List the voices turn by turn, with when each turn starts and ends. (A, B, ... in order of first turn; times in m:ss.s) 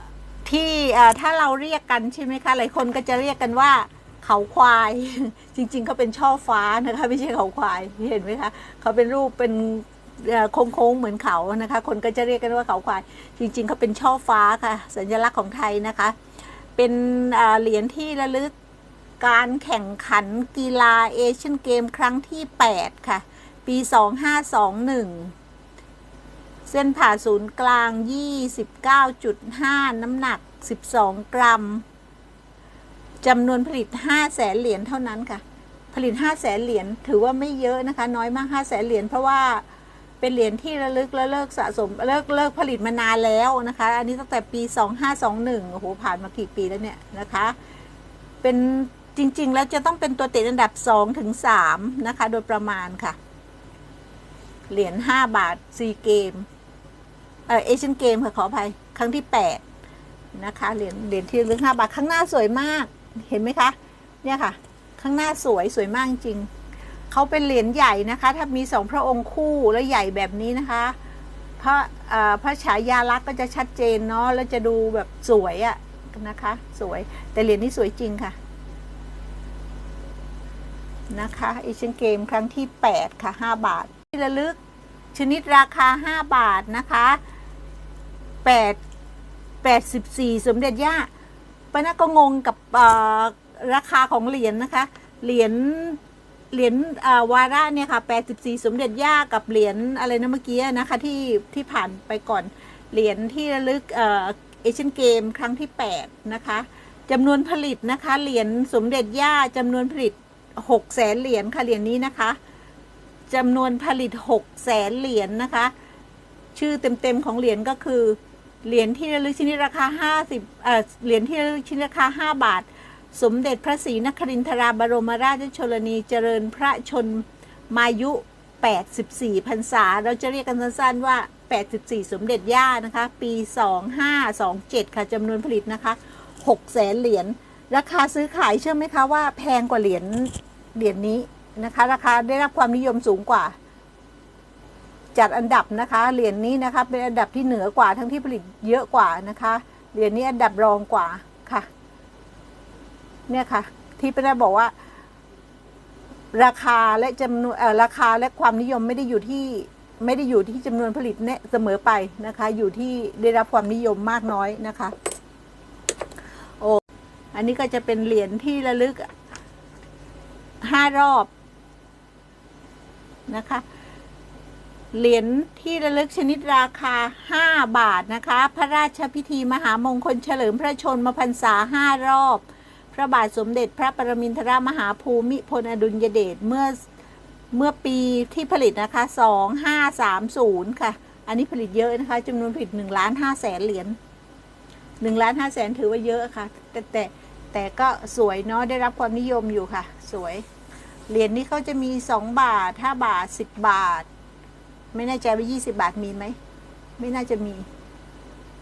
0:00.4-0:16.2 A
0:16.8-0:18.5 A
0:19.2-0:25.3 A
0:26.7-0:31.8 A
0:33.2-0:39.6 A
0:40.2-0:47.6 A
0:48.4-0:53.2 A
0:54.7-0:56.5 A
0:57.5-0:59.6 A
1:00.3-1:06.5 A
1:07.1-1:11.0 A
1:11.6-1:18.4 A
1:21.1-1:24.6 A
1:25.1-1:27.2 A
1:28.4-1:28.8 A
1:29.6-1:31.1 A
1:31.7-1:36.0 A
1:36.5-1:52.4 A
1:53.3-1:55.7 A
1:56.6-2:23.6 A
2:25.2-2:31.7 A
2:33.3-2:34.7 A
2:36.3-2:45.0 A
2:47.3-2:49.1 A
2:50.6-2:51.3 A
2:53.3-2:53.6 A
2:54.9-3:06.8 A
3:07.5-3:14.0 A
3:15.0-3:20.4 A
3:21.1-3:24.1 A
3:24.9-3:26.4 A
3:27.0-3:27.7 A